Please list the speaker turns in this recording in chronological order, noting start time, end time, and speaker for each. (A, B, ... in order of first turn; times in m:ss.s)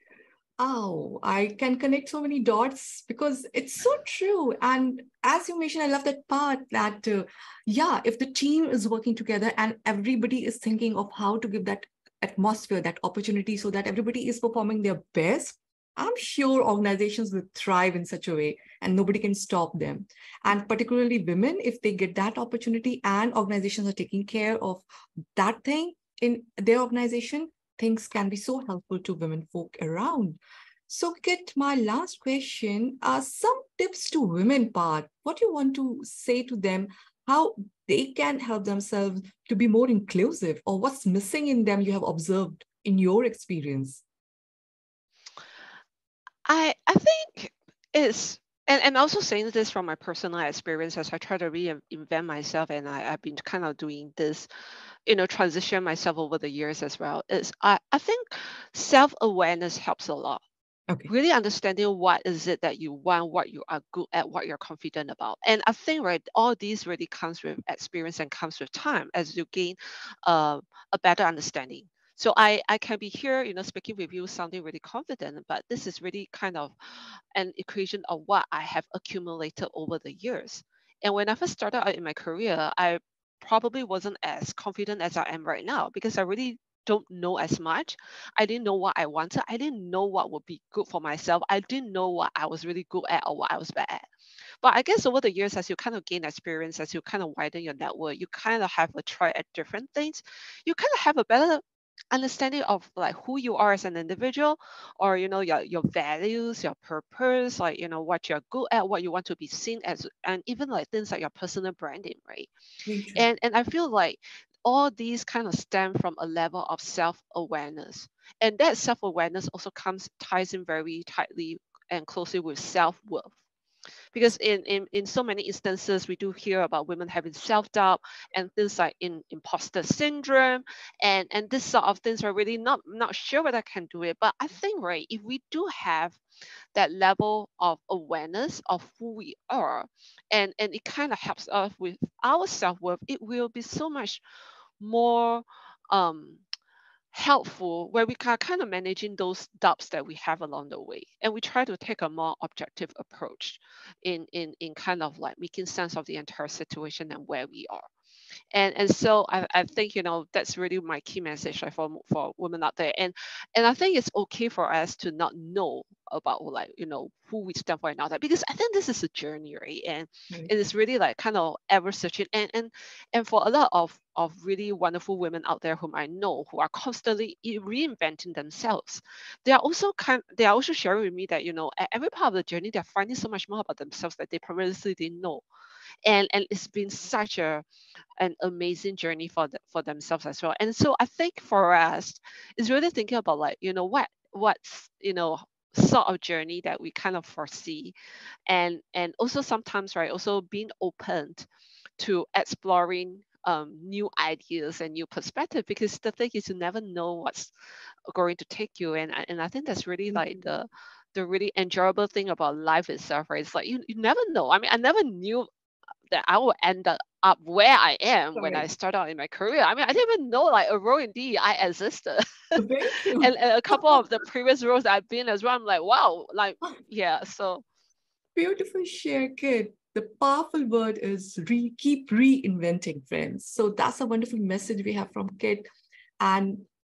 0:00.6-0:44.0 A
0:46.5-0:54.5 B
0:55.1-1:00.4 B
1:01.1-1:16.7 B
1:17.4-1:34.1 B
1:34.6-1:52.5 B
1:52.9-1:53.3 A
1:53.2-2:03.4 B
2:04.1-2:16.2 B
2:16.8-2:24.2 B
2:24.8-2:26.4 B
2:27.1-2:37.9 B
2:38.5-3:05.4 B
3:06.0-3:07.6 B
3:08.2-3:17.9 B
3:18.5-3:21.5 B
3:22.0-3:27.5 B
3:28.1-3:35.5 B
3:30.1-3:30.4 A
3:36.1-3:42.2 B
3:38.4-3:38.7 A
3:42.6-3:44.0 A
3:43.2-3:47.6 B
3:48.4-3:55.7 A
3:56.2-3:56.7 A